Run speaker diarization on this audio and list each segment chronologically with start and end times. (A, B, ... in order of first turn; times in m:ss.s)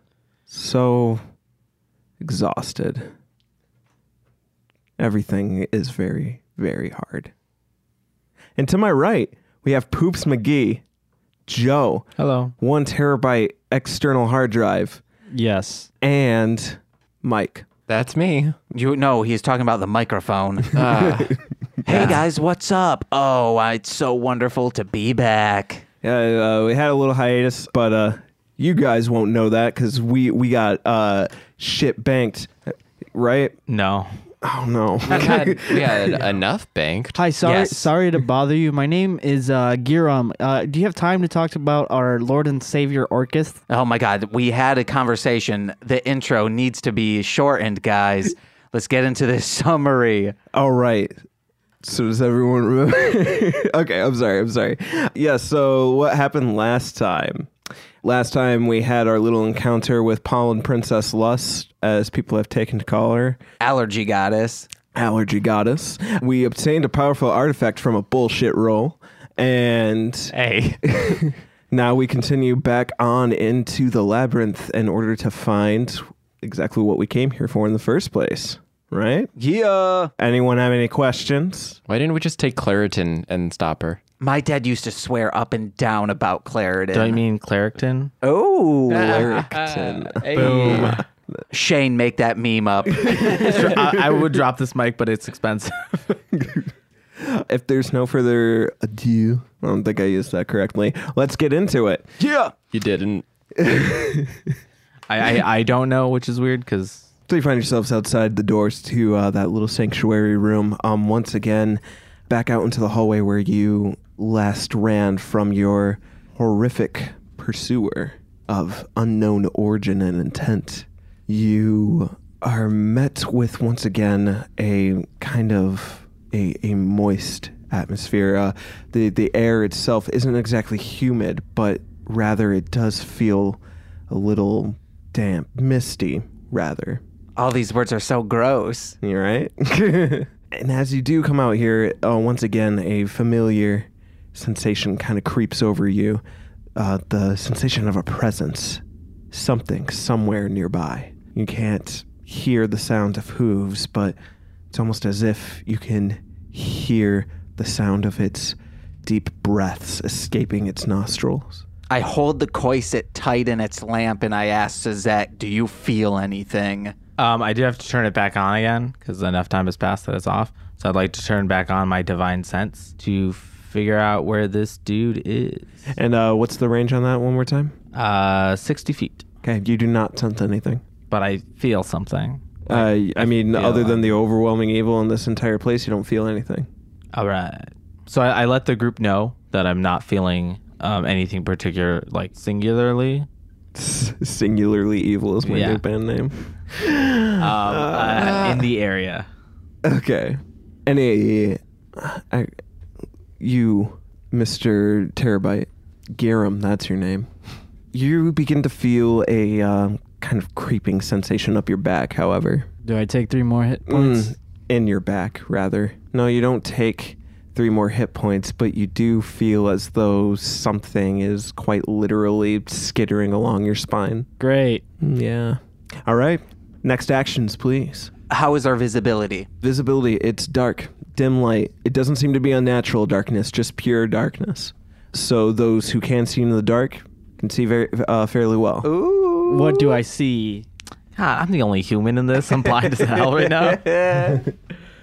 0:00.5-0:01.2 A
0:02.2-0:03.1 A
0:05.0-0:07.3 A
0:08.6-0:10.8 A
0:11.5-0:12.1 A
0:12.2-0:12.5 B
0:12.6-0:15.0 A
0:15.3-0:15.9 C
0:16.0-0:17.7 A
0:17.9-0:18.6 D
0:18.7-0:20.8 E
0:20.7-0:21.4 D
0:21.0-0:21.3 A
0:21.8-0:25.8 E
0:21.9-0:22.2 B
0:26.0-0:33.6 A
0:33.7-0:34.1 B
0:34.4-0:36.2 A
0:35.1-0:37.2 D
0:37.1-0:43.6 C
0:37.4-0:37.9 E
0:43.7-0:50.4 E
0:50.5-0:51.1 A
0:51.8-0:57.5 A
0:58.0-1:03.4 A
1:03.6-1:04.7 E
1:04.9-1:19.3 A
1:10.3-1:10.8 B
1:19.4-1:20.1 E
1:20.2-1:21.8 A
1:21.9-1:24.0 D
1:24.2-1:27.2 E
1:26.9-1:28.1 B
1:28.2-1:29.3 E
1:28.9-1:31.0 B
1:29.0-1:31.0 A
1:30.3-1:31.0 E
1:31.5-1:33.7 E
1:32.9-1:34.4 A
1:33.0-1:36.2 B
1:36.3-1:42.5 A
1:42.6-1:43.2 D
1:43.5-1:44.5 A
1:45.1-1:47.0 B
1:47.3-2:17.0 A
2:17.4-2:19.0 E
2:19.0-2:26.2 A
2:26.8-2:34.2 A
2:34.7-2:41.6 A
2:41.9-2:46.9 E
2:47.2-2:55.7 B
2:55.9-2:57.7 A
2:57.9-2:59.2 B
2:59.4-3:00.8 A
3:01.1-3:04.0 B
3:02.7-3:06.7 A
3:07.1-3:13.3 B
3:13.7-3:18.5 A
3:15.4-3:15.8 B
3:17.4-3:19.3 B
3:18.2-3:18.6 D
3:19.8-3:22.5 A
3:23.4-3:27.3 A
3:27.9-3:32.7 A
3:32.8-3:34.3 C
3:33.9-3:44.3 A
3:44.4-3:44.8 C
3:45.0-3:48.1 A
3:48.3-3:49.5 E
3:49.6-3:58.9 A
3:58.8-4:00.0 E
3:59.4-4:00.7 C
4:01.2-4:03.8 B
4:03.4-4:04.4 E
4:04.2-4:04.5 A